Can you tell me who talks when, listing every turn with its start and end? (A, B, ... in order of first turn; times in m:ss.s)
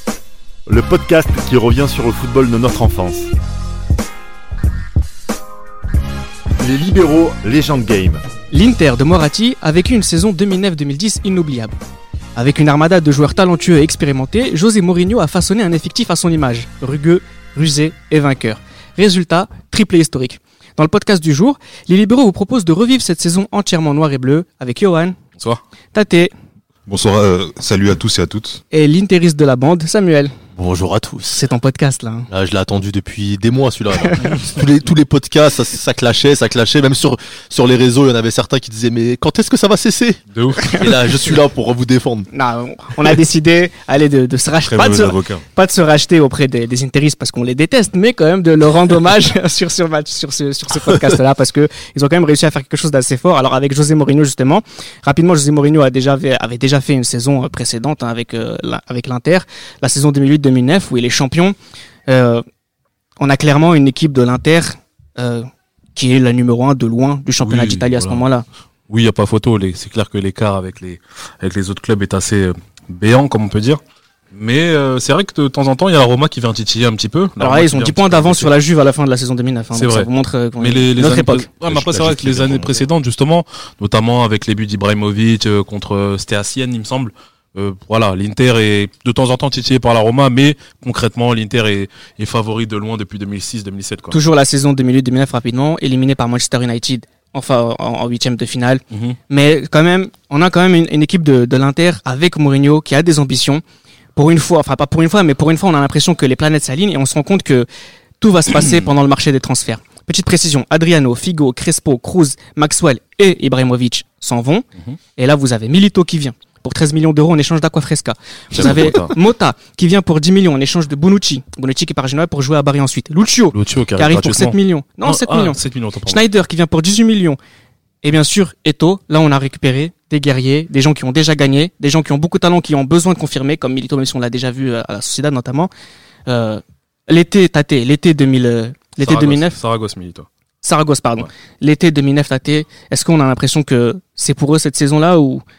0:00.7-0:03.3 A
0:06.6-0:08.2 A
0:08.5-0:11.8 B
0:12.4-0:25.2 B
0:25.9-0:26.3 B
0:26.9-0:28.6 C
0:28.7-0:30.3 B
0:30.6-0:31.4 D
0:31.3-0:32.3 B
0:32.3-0:42.3 D
0:34.0-0:34.3 B
0:40.3-0:40.8 E
0:42.3-1:01.6 B
0:44.6-0:45.4 C
1:02.1-1:02.4 B
1:03.2-1:08.4 B
1:07.4-1:08.2 E
1:08.9-1:13.8 E
1:14.3-1:18.5 E
1:17.4-1:21.5 B
1:19.7-1:34.2 E
1:21.7-1:22.8 C
1:34.1-1:43.6 B
1:38.9-1:39.2 E
1:44.2-1:47.7 B
1:48.2-1:54.6 B
1:55.2-2:07.4 B
1:58.5-1:59.1 E
2:03.5-2:06.2 E
2:08.0-2:15.7 B
2:16.3-2:19.6 B
2:19.0-2:20.3 E
2:20.6-2:25.4 B